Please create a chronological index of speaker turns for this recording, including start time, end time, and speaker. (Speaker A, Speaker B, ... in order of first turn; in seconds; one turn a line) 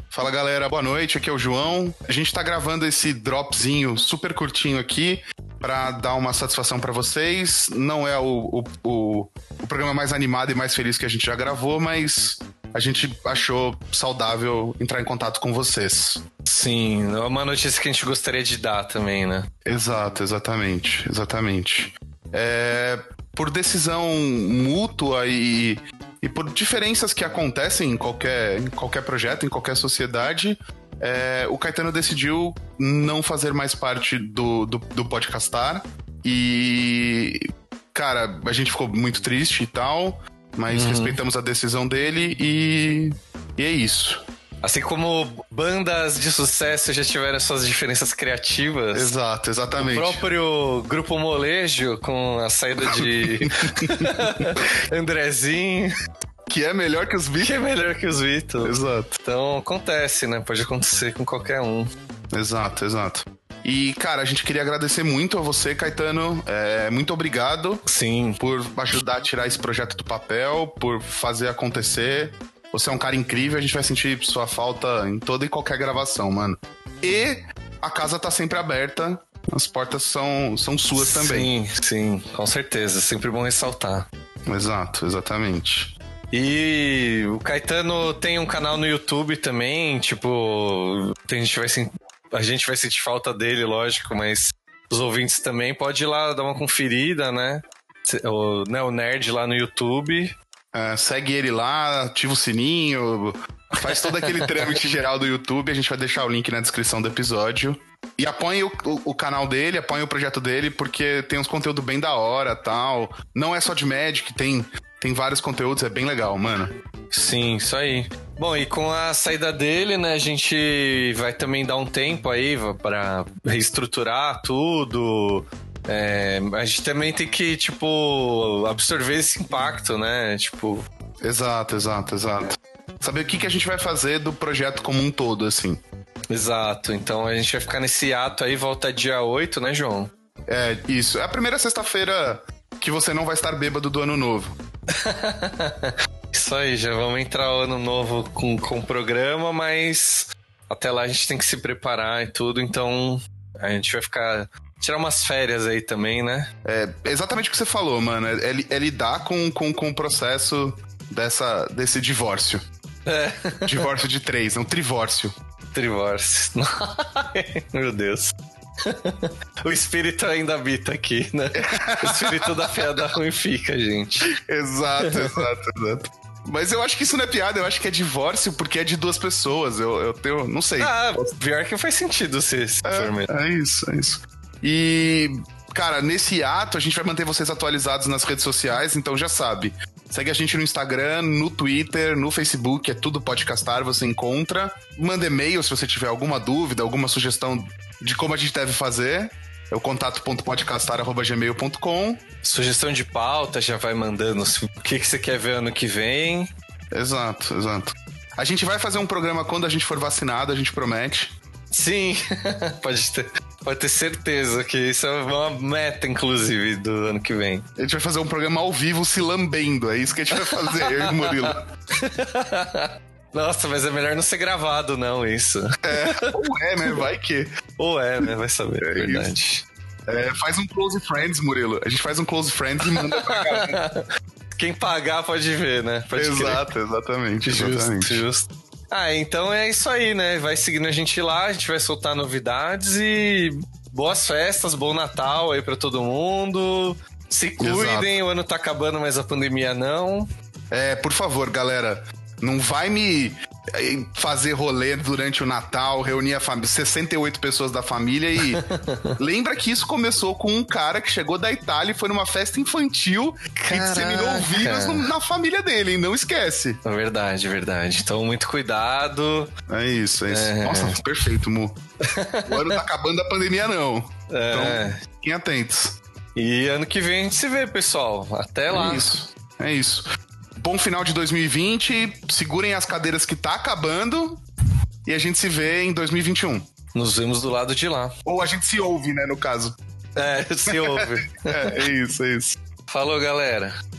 Speaker A: 0.1-16.2
Speaker B: 16.4-19.5
Speaker A: 19.6-44.2
Speaker B: 40.7-41.2
Speaker B: 44.6-49.1
Speaker A: 48.9-50.2
Speaker B: 49.8-55.9
Speaker A: 52.8-54.4
Speaker A: 56.5-57.6
Speaker B: 57.4-61.9
Speaker A: 58.6-59.1
Speaker A: 62.3-67.8
Speaker B: 67.8-68.4
Speaker A: 68.4-81.5
Speaker B: 81.0-84.1
Speaker A: 84.5-86.0
Speaker B: 86.3-100.3
Speaker A: 100.7-116.7
Speaker B: 103.8-104.8
Speaker B: 117.1-130.8
Speaker A: 131.2-135.8
Speaker B: 136.3-140.1
Speaker A: 140.5-144.6
Speaker B: 144.9-156.5
Speaker A: 156.6-162.6
Speaker B: 163.1-163.9
Speaker A: 163.6-165.3
Speaker B: 165.7-174.3
Speaker A: 171.5-173.0
Speaker A: 174.4-181.3
Speaker B: 175.1-175.4
Speaker B: 180.8-183.3
Speaker A: 182.8-202.2
Speaker B: 202.4-206.5
Speaker A: 206.9-211.3
Speaker B: 211.7-217.6
Speaker A: 217.8-221.6
Speaker B: 220.4-226.4
Speaker A: 225.8-227.5
Speaker B: 227.8-229.6
Speaker A: 228.2-229.3
Speaker A: 230.1-233.8
Speaker B: 232.9-234.1
Speaker B: 234.6-236.7
Speaker A: 236.2-238.2
Speaker B: 237.4-250.3
Speaker A: 247.6-248.2
Speaker A: 250.7-258.6
Speaker B: 258.5-259.1
Speaker A: 259.2-266.8
Speaker B: 263.6-265.1
Speaker B: 266.8-269.5
Speaker A: 269.7-271.8
Speaker B: 270.3-271.0
Speaker B: 272.1-272.8
Speaker A: 272.4-276.0
Speaker B: 274.3-275.0
Speaker B: 276.4-279.1
Speaker A: 278.7-280.0
Speaker A: 280.6-284.4
Speaker A: 285.0-286.7
Speaker B: 286.9-288.1
Speaker A: 288.2-289.8
Speaker B: 290.1-291.8
Speaker A: 290.6-292.6
Speaker B: 292.9-293.7